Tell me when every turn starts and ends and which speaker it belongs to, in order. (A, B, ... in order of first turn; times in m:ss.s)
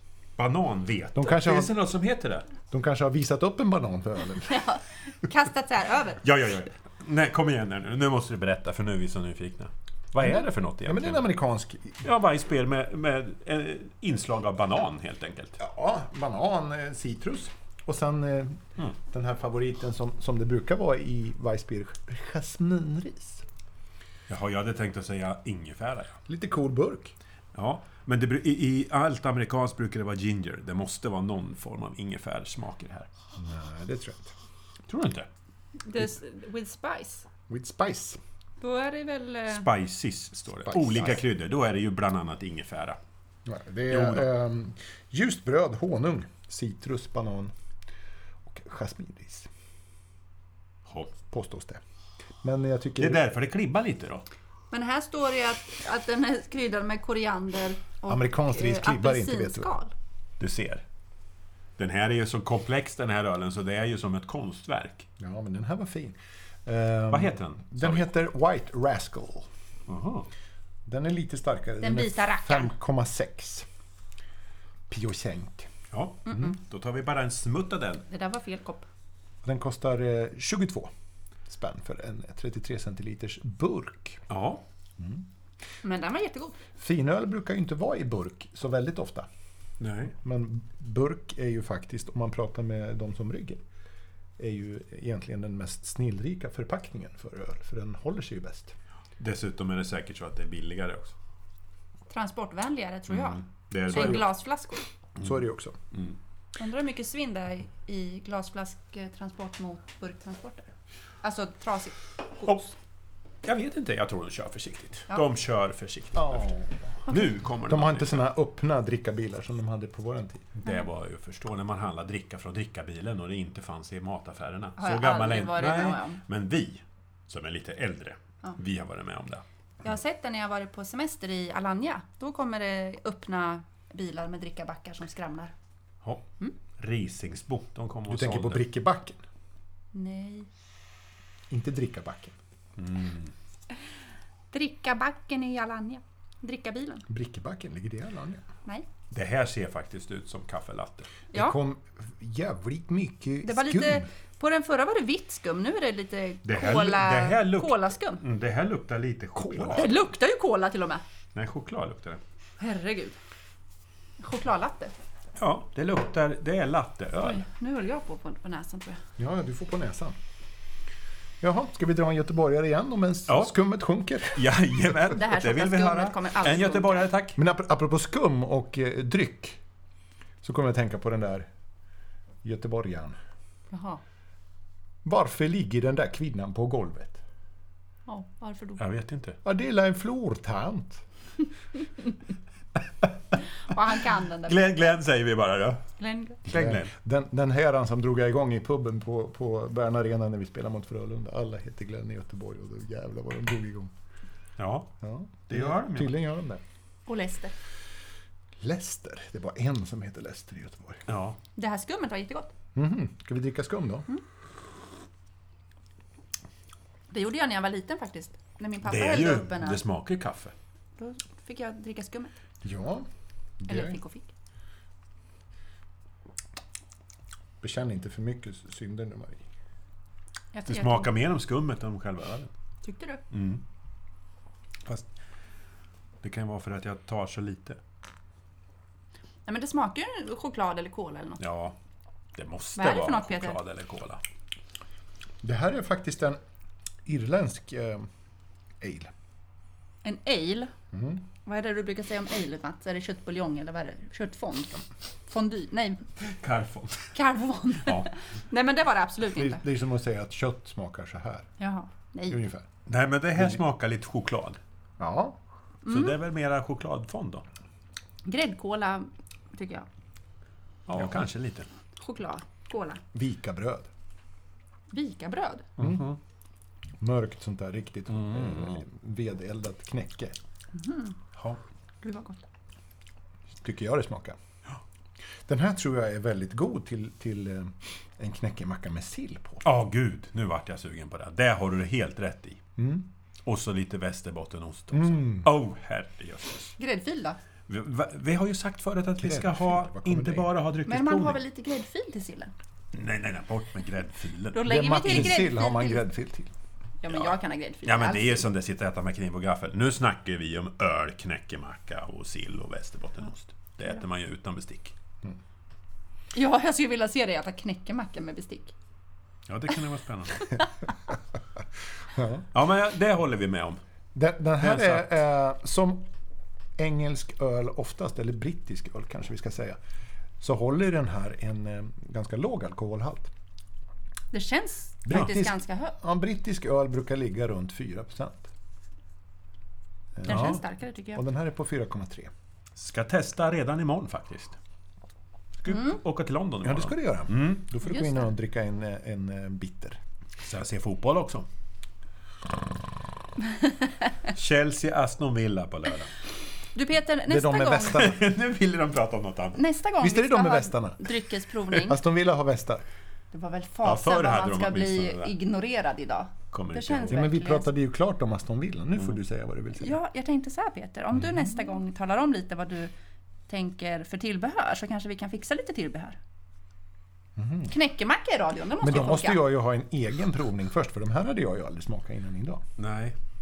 0:00.4-0:02.5 A
0:01.2-0:01.7 B
0:02.7-0:04.6 B
0:04.4-0:06.2 C
0:06.2-0:11.3 A
0:10.2-0:12.0 B
0:12.0-0:15.6 A
0:15.6-0:23.5 B
0:24.3-0:26.2 A
0:26.3-0:27.2 B
0:27.5-0:33.1 A
0:33.4-0:34.3 B
0:34.9-0:35.3 A
0:35.8-0:37.3 C
0:37.5-0:38.2 B
0:38.6-0:39.7 C
0:39.5-0:43.0 A
0:40.7-0:41.2 B
0:43.4-0:47.5 B
0:43.9-0:44.2 A
0:48.5-0:49.5 B
0:50.9-0:51.1 A
0:51.3-0:51.8 B
0:52.4-0:53.2 B
0:53.0-0:54.3 A
0:54.7-0:59.9 C
0:58.1-0:59.7 B
1:00.4-1:00.8 A
1:01.8-1:05.1 A
1:05.2-1:09.5 B
1:07.1-1:08.1 A
1:09.9-1:10.3 A
1:10.9-1:13.7 B
1:11.8-1:12.8 C
1:14.9-1:15.7 B
1:15.9-1:18.1 A
1:16.3-1:16.5 C
1:18.1-1:18.9 C
1:19.4-1:20.9 B
1:21.5-1:24.2 B
1:24.3-1:24.6 A
1:25.0-1:25.2 B
1:25.8-1:26.6 C
1:26.8-1:29.3 B
1:29.8-1:30.1 A
1:30.1-1:33.6 B
1:34.4-1:38.7 B
1:39.2-1:41.2 A
1:42.1-1:44.8 C
1:43.1-1:44.3 A
1:43.9-1:44.2 B
1:45.2-1:45.8 B
1:46.6-1:50.7 C
1:51.2-1:52.7 C
1:53.4-1:56.5 A
1:56.2-1:57.1 B
1:57.1-1:58.3 A
1:57.7-2:00.6 B
2:00.6-2:09.4 A
2:04.8-2:06.2 C
2:09.8-2:15.5 C
2:16.8-2:18.6 A
2:18.1-2:19.2 B
2:19.9-2:20.5 C
2:21.5-2:22.4 B
2:22.8-2:23.3 A
2:24.5-2:27.0 C
2:27.1-2:28.4 B
2:29.1-2:31.1 A
2:31.3-2:34.1 B
2:33.4-2:38.2 C
2:36.4-2:39.9 A
2:39.4-2:39.9 B
2:39.7-2:41.0 C
2:41.4-2:42.2 A
2:42.6-2:43.2 C
2:44.2-2:44.9 C
2:45.4-2:47.4 A
2:47.2-2:49.0 C
2:49.2-2:50.2 B
2:51.4-2:54.5 B
2:53.3-2:53.6 A
2:54.3-2:57.4 A
2:55.1-2:57.1 C
2:57.4-2:59.6 B
3:00.4-3:01.5 B
3:02.4-3:03.2 B
3:03.7-3:04.0 C
3:05.0-3:07.2 B
3:08.1-3:08.8 C
3:08.8-3:09.4 A
3:09.4-3:11.0 B
3:13.7-3:14.8 C
3:14.5-3:15.9 A
3:16.0-3:16.4 C
3:16.4-3:16.9 A
3:16.5-3:23.9 B
3:24.6-3:24.9 A
3:25.0-3:26.6 B
3:25.5-3:26.2 A
3:27.1-3:27.5 C
3:28.6-3:31.0 B
3:31.1-3:31.4 A
3:31.6-3:32.5 C
3:32.8-3:34.1 B
3:37.1-3:39.8 C
3:38.8-3:40.5 A
3:41.0-3:42.3 C
3:42.6-3:43.1 B
3:43.6-3:44.0 B
3:43.7-3:44.3 C
3:47.6-3:49.4 B
3:50.5-3:51.1 C
3:50.7-3:52.5 A
3:52.8-3:53.2 C
3:53.3-3:53.6 A
3:56.2-3:57.8 A
3:59.5-4:01.4 C
4:01.4-4:01.8 A
4:02.4-4:04.2 A
4:02.8-4:03.6 C
4:05.4-4:06.4 B
4:07.1-4:08.1 B
4:08.8-4:09.1 B
4:10.0-4:10.7 C
4:10.9-4:11.2 B
4:11.4-4:16.0 C
4:16.2-4:17.1 A
4:17.1-4:19.6 C
4:19.3-4:21.5 B
4:21.6-4:22.4 C
4:22.3-4:22.7 B
4:22.9-4:24.6 A
4:25.0-4:25.4 B
4:25.8-4:26.2 C
4:25.9-4:27.4 A
4:28.2-4:29.9 C
4:30.9-4:31.7 A
4:32.0-4:33.0 C
4:33.1-4:33.9 B
4:34.9-4:35.7 C
4:35.8-4:36.2 A
4:35.8-4:36.1 B
4:37.0-4:40.4 B
4:38.2-4:38.8 A
4:40.8-4:41.2 C
4:42.0-4:42.4 C
4:43.6-4:44.4 B
4:45.5-4:49.6 B
4:49.6-4:52.6 A
4:52.8-4:53.1 B
4:53.4-4:56.8 A
4:54.9-4:55.5 B
4:56.8-4:57.4 C
4:57.7-5:01.4 A
4:59.2-5:00.5 B
5:00.9-5:02.5 C
5:02.9-5:05.4 A
5:04.5-5:06.0 C
5:04.6-5:06.5 B
5:07.0-5:08.5 C
5:07.1-5:14.9 A
5:16.4-5:18.7 C
5:19.5-5:20.6 A
5:22.1-5:22.5 B
5:22.5-5:23.8 A
5:24.2-5:26.1 B
5:24.6-5:25.1 A
5:26.8-5:29.8 B
5:30.4-5:33.3 B
5:34.3-5:36.0 C
5:35.0-5:38.5 B
5:40.2-5:42.3 B
5:40.2-5:41.2 C
5:40.3-5:40.6 A
5:42.8-5:44.6 A
5:45.6-5:47.6 A
5:46.6-5:50.0 B
5:47.8-5:48.3 C
5:50.4-5:51.5 A
5:54.3-5:56.1 A
5:56.8-5:58.1 C
5:57.3-5:58.2 B
5:57.9-5:59.6 A
5:59.6-6:02.0 C
6:00.0-6:01.0 B
6:01.7-6:02.8 B
6:03.3-6:07.7 C
6:03.8-6:05.3 A
6:06.5-6:07.2 A
6:07.1-6:10.0 B
6:09.8-6:12.9 C
6:13.5-6:16.2 C
6:17.4-6:17.7 B
6:17.7-6:19.5 C
6:18.8-6:22.6 B
6:22.8-6:23.2 A